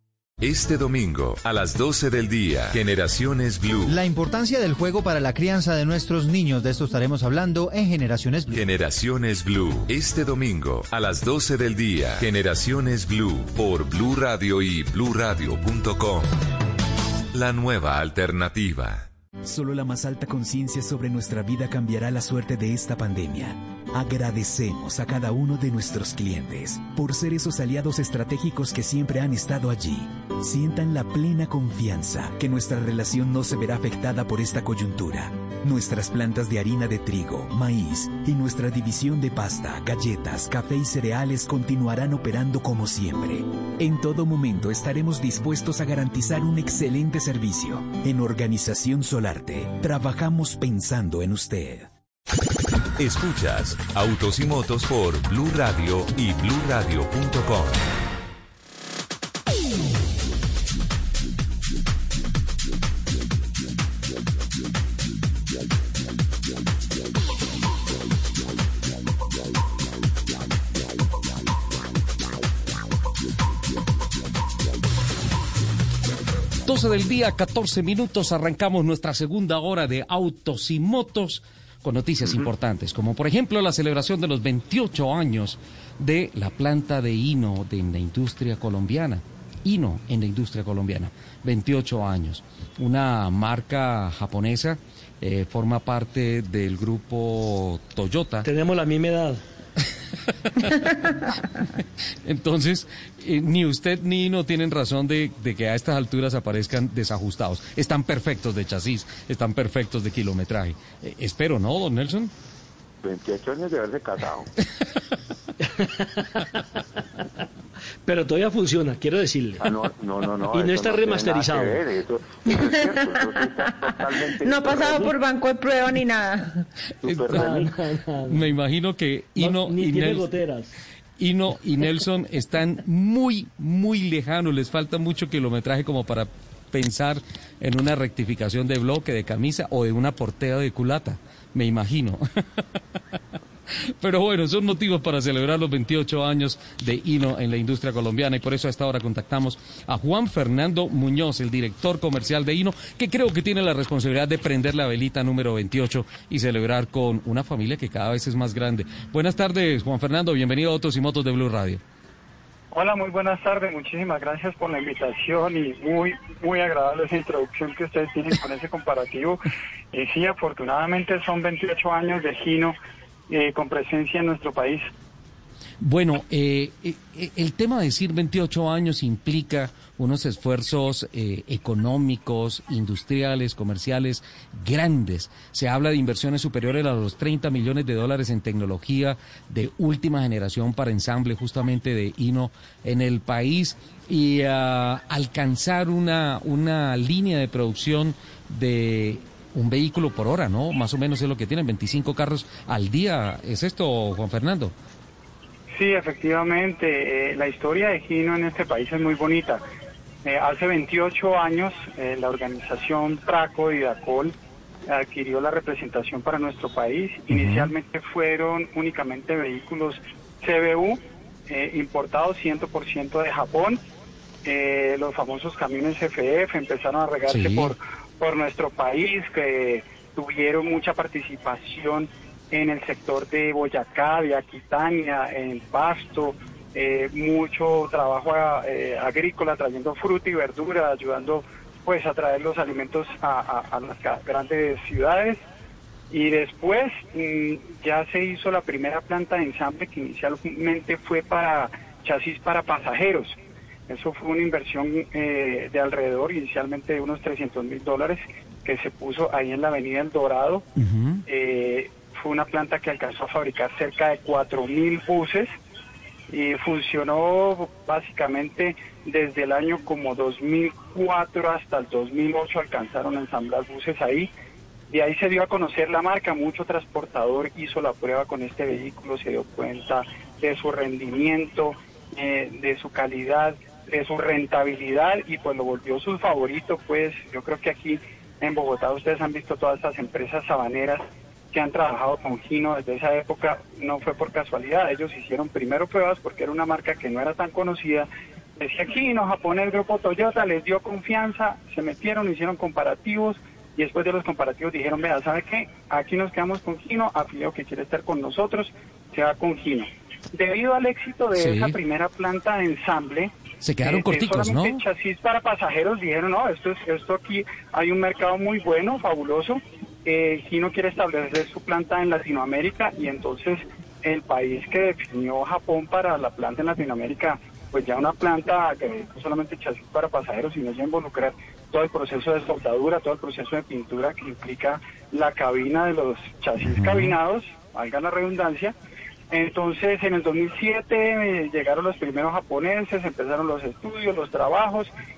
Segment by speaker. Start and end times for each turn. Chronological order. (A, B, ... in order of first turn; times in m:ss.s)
0:00.4-0:04.0 A
0:03.9-0:08.5 B
0:08.5-0:16.3 A
0:17.3-0:19.1 A
0:19.4-0:51.9 C
0:53.0-0:57.9 A
1:16.6-1:38.5 D
1:38.4-1:39.4 E
1:42.2-1:52.3 D
1:53.0-1:54.5 F
1:55.9-1:56.4 E
1:58.1-1:59.7 E
1:59.6-2:05.2 F
2:00.5-2:01.8 E
2:02.5-2:03.3 G
2:04.4-2:06.5 G
2:07.0-2:07.7 F
2:07.1-2:07.6 D
2:07.3-2:08.4 E
2:08.3-2:10.3 D
2:09.4-2:10.7 E
2:11.2-2:22.2 D
2:24.0-2:41.8 D
2:42.7-2:49.4 H
2:49.9-2:52.8 H
2:53.3-2:54.9 H
2:55.8-3:24.7 D
3:25.7-3:29.6 H
3:30.2-3:34.3 H
3:34.9-3:43.8 H
3:37.3-3:37.7 D
3:44.4-4:05.4 H
3:47.3-3:47.7 D
4:06.1-4:13.4 H
4:13.9-4:20.6 H
4:20.8-4:21.2 D
4:21.3-4:25.5 H
4:26.3-4:34.3 H
4:34.9-5:38.8 H
5:11.4-5:11.8 D
5:13.6-5:14.8 D
5:36.6-5:37.2 D
5:39.3-5:44.9 H